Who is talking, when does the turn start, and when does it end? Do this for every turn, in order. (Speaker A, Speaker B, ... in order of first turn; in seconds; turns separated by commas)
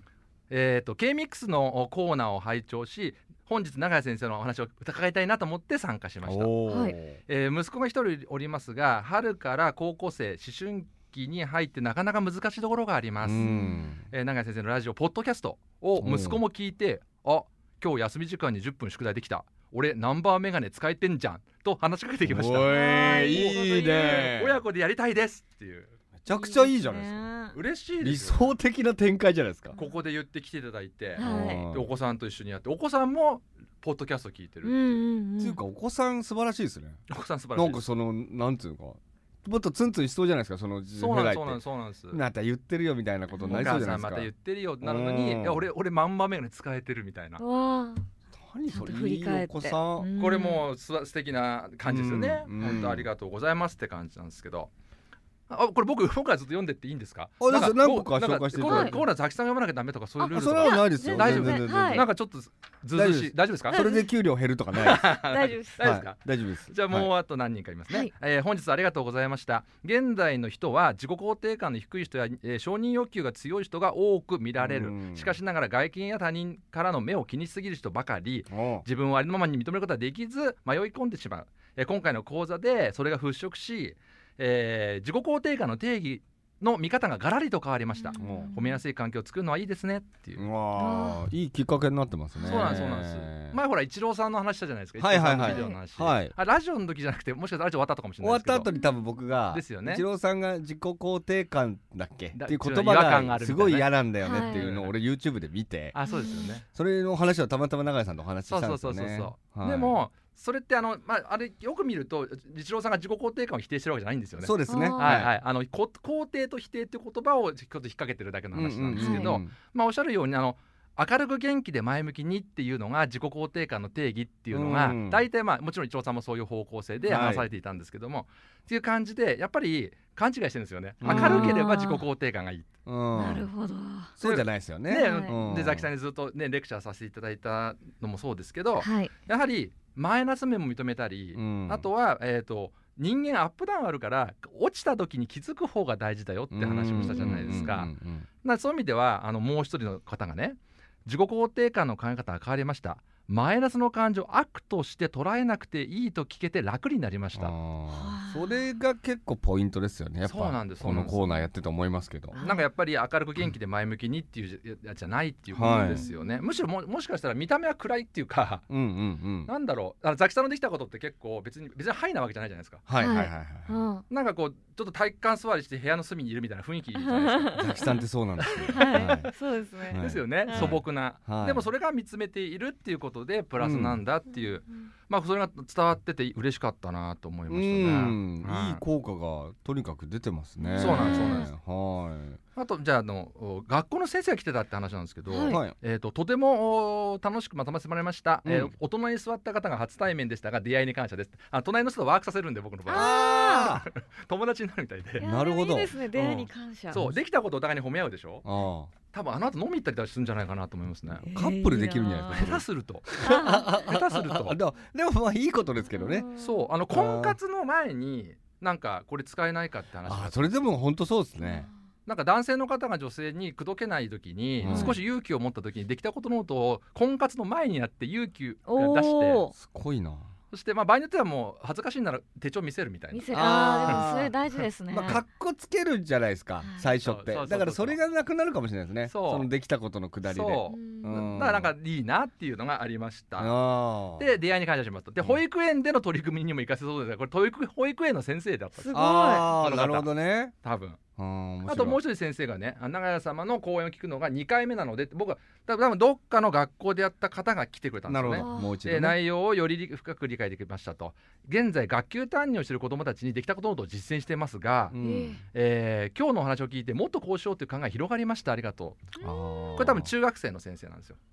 Speaker A: 0.5-13.5, Speaker B: 6.2-7.2, Speaker C: 6.7-7.0, Speaker B: 13.2-14.0, Speaker C: 13.4-13.8, Speaker A: 14.1-25.9, Speaker B: 16.0-16.4, Speaker B: 22.3-24.6, Speaker C: 22.7-24.3, Speaker B: 26.2-27.3, Speaker C: 26.3-27.6, Speaker A: 27.5-28.6, Speaker B: 28.0-29.8, Speaker A: 29.8-35.0, Speaker C: 31.2-31.7, Speaker B: 31.2-31.9, Speaker C: 34.6-35.6, Speaker B: 35.4-37.0, Speaker A: 37.1-37.9, Speaker B: 37.5-45.7, Speaker A: 41.0-42.2, Speaker C: 43.3-44.0, Speaker A: 43.5-47.4, Speaker C: 47.4-48.0, Speaker B: 48.4-50.1, Speaker C: 48.7-50.6, Speaker A: 50.2-54.7, Speaker B: 51.8-53.1, Speaker A: 55.5-63.9, Speaker B: 57.4-59.0, Speaker C: 58.6-59.0, Speaker C: 60.2-62.1, Speaker B: 60.3-62.1, Speaker B: 63.0-65.1, Speaker C: 63.7-64.1, Speaker A: 64.7-90.5, Speaker C: 65.2-65.8, Speaker B: 65.8-67.1, Speaker B: 74.6-75.4, Speaker B: 78.5-78.8, Speaker C: 88.0-88.8, Speaker B: 88.2-88.5, Speaker B: 90.4-93.6, Speaker C: 90.8-91.3, Speaker C: 92.3-92.8, Speaker A: 92.4-98.7, Speaker B: 95.0-96.3, Speaker C: 95.4-95.8, Speaker B: 98.2-106.0, Speaker C: 98.7-99.0, Speaker A: 99.5-100.0, Speaker A: 102.3-104.9, Speaker C: 104.2-104.7, Speaker A: 105.9-106.7, Speaker C: 106.1-106.5, Speaker B: 106.6-110.0, Speaker A: 108.5-132.7, Speaker B: 114.4-115.3, Speaker C: 114.7-115.2, Speaker B: 118.5-119.5, Speaker C: 119.0-119.4, Speaker B: 124.5-125.2, Speaker B: 127.1-127.5, Speaker B: 131.0-131.6, Speaker C: 131.1-132.1, Speaker B: 132.9-133.5, Speaker C: 133.2-134.1, Speaker B: 134.2-135.9, Speaker A: 134.2-147.9, Speaker C: 134.9-135.3, Speaker C: 138.8-139.1, Speaker B: 141.3-141.9, Speaker B: 146.5-148.3, Speaker C: 147.0-147.8, Speaker A: 148.4-157.5, Speaker B: 157.3-162.4, Speaker C: 157.9-158.7, Speaker A: 160.2-161.2, Speaker C: 162.3-162.7, Speaker A: 162.4-168.7, Speaker B: 165.5-166.1, Speaker C: 165.6-166.6, Speaker B: 168.7-169.5, Speaker A: 169.4-172.8, Speaker B: 172.9-173.8, Speaker C: 173.0-174.0, Speaker A: 174.1-177.9, Speaker C: 176.9-177.6, Speaker B: 177.6-179.3, Speaker A: 178.4-179.1, Speaker C: 178.6-180.8, Speaker B: 179.9-181.7, Speaker A: 179.9-188.8, Speaker B: 183.6-184.0, Speaker B: 187.5-192.4, Speaker C: 190.6-191.5, Speaker A: 190.8-191.5, Speaker A: 192.6-205.3, Speaker C: 195.3-195.6, Speaker B: 195.4-195.8, Speaker B: 198.4-198.7, Speaker C: 202.9-203.8, Speaker B: 202.9-203.9, Speaker C: 205.2-207.0, Speaker B: 205.2-205.9, Speaker A: 206.1-208.4, Speaker B: 208.4-208.9, Speaker A: 209.1-211.2, Speaker B: 211.2-216.3, Speaker C: 211.3-212.6, Speaker A: 212.3-214.6, Speaker C: 213.2-213.8, Speaker C: 215.8-216.7, Speaker A: 216.4-220.6, Speaker B: 216.9-217.4, Speaker B: 220.1-221.7, Speaker C: 221.4-221.7, Speaker A: 222.1-229.5, Speaker B: 224.6-225.0, Speaker C: 224.7-225.0, Speaker C: 228.7-229.5, Speaker B: 229.6-230.3, Speaker A: 230.5-234.1, Speaker C: 233.1-235.2, Speaker B: 233.3-234.3, Speaker A: 234.6-235.2, Speaker B: 234.9-241.7, Speaker C: 236.6-236.9, Speaker A: 237.0-238.0, Speaker A: 239.1-239.5, Speaker A: 240.2-243.6, Speaker C: 240.7-241.2, Speaker B: 243.4-244.3, Speaker A: 244.1-250.1, Speaker C: 248.8-249.5, Speaker B: 248.9-250.5, Speaker A: 250.6-251.0, Speaker B: 251.2-252.0, Speaker A: 251.7-264.9, Speaker B: 258.1-259.2, Speaker C: 258.3-258.8, Speaker B: 264.9-265.4, Speaker C: 265.0-265.4, Speaker A: 265.5-269.1, Speaker C: 269.2-270.0, Speaker B: 269.2-270.1, Speaker A: 269.8-271.2